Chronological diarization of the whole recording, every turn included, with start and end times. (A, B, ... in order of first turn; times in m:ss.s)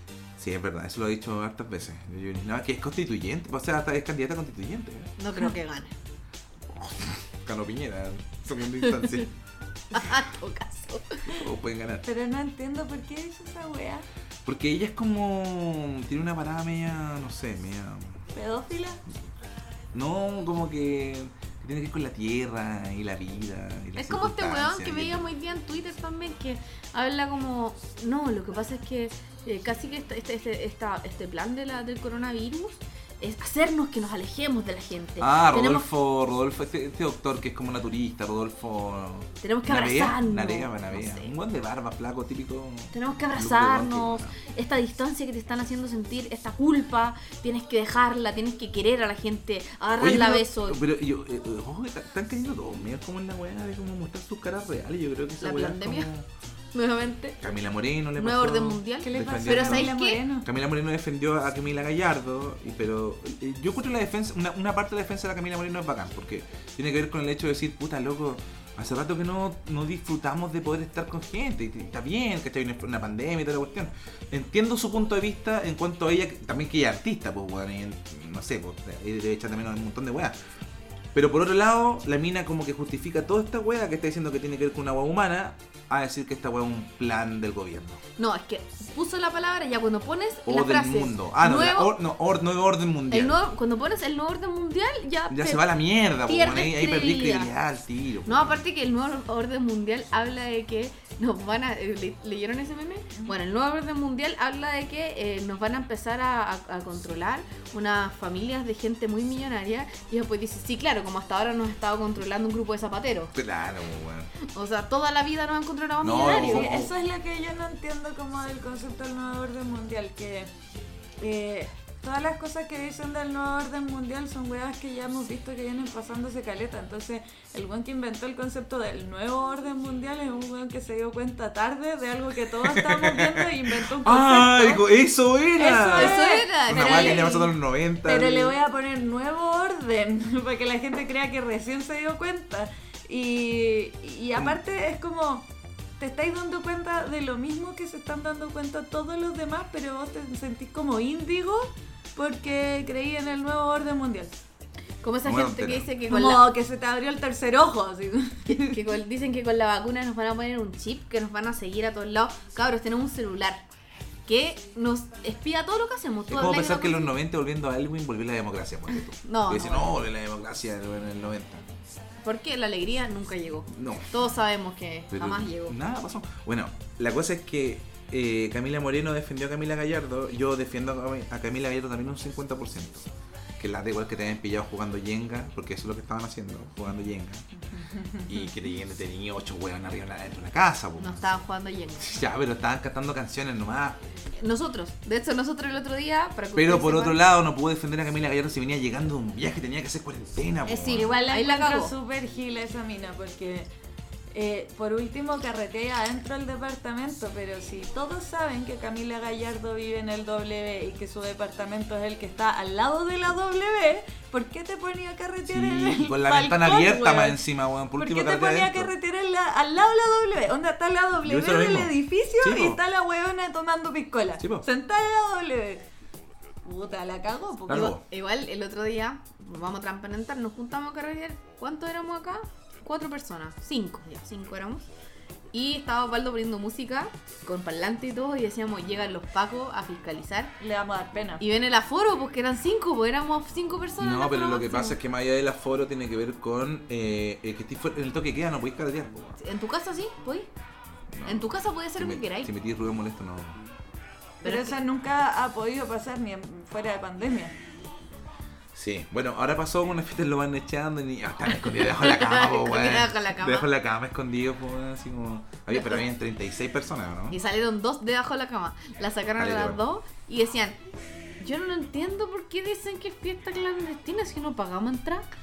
0:00.4-0:05.1 A
0:05.2-0:05.9 B
0:06.7-0:09.3 A
0:08.8-0:09.2 B
0:09.9-0:11.2 B
0:11.3-0:12.0 A
0:12.0-0:14.1 C
0:14.4-0:18.2 A
0:18.4-0:19.0 C
0:19.9-0:25.2 A
0:24.0-0:35.9 B
0:35.2-0:44.3 A
0:39.4-0:41.4 B
0:42.9-0:50.8 B
0:50.0-0:56.3 A
0:55.4-0:56.1 B
0:56.7-0:57.4 B
0:57.4-1:20.4 A
0:58.2-1:00.2 B
0:59.0-1:00.5 C
1:21.1-1:28.0 A
1:28.2-1:32.0 B
1:30.5-1:33.4 A
1:33.1-1:35.7 B
1:35.3-1:38.6 A
1:36.2-1:37.5 B
1:38.3-1:53.4 B
1:53.4-1:54.3 A
1:54.5-1:56.7 B
1:56.0-1:56.9 A
1:56.2-2:00.5 C
2:01.2-2:14.9 C
2:12.6-2:18.6 A
2:15.6-2:17.5 C
2:15.8-2:17.5 B
2:18.0-2:25.5 C
2:26.0-2:34.4 C
2:35.0-2:36.4 B
2:35.2-2:35.9 A
2:36.1-2:38.8 C
2:38.5-2:43.6 B
2:44.3-2:47.1 B
2:46.3-2:51.7 A
2:49.2-2:49.9 B
2:52.2-2:55.8 B
2:53.7-2:54.2 A
2:55.1-3:03.1 A
3:03.6-3:07.4 A
3:07.7-3:08.4 C
3:08.3-3:11.3 A
3:11.0-3:12.1 B
3:12.0-3:14.0 A
3:14.4-3:17.2 B
3:16.6-3:21.1 A
3:20.7-3:21.9 B
3:20.9-3:23.7 C
3:24.3-3:37.4 C
3:35.4-3:38.9 A
3:38.0-3:45.8 C
3:41.2-3:42.8 A
3:44.4-3:44.6 A
3:46.6-3:47.9 C
3:47.7-3:48.0 A
3:48.1-3:54.9 B
3:55.5-4:00.5 B
4:00.6-4:01.4 C
4:01.4-4:05.0 B
4:04.0-4:09.4 A
4:09.4-4:10.5 B
4:11.1-4:13.6 A
4:11.2-4:12.5 B
4:14.4-4:14.8 B
4:14.4-4:17.6 C
4:18.7-4:27.4 A
4:22.0-4:23.7 B
4:25.7-4:26.0 B
4:27.3-4:30.8 B
4:29.4-4:29.8 A
4:31.4-4:35.3 B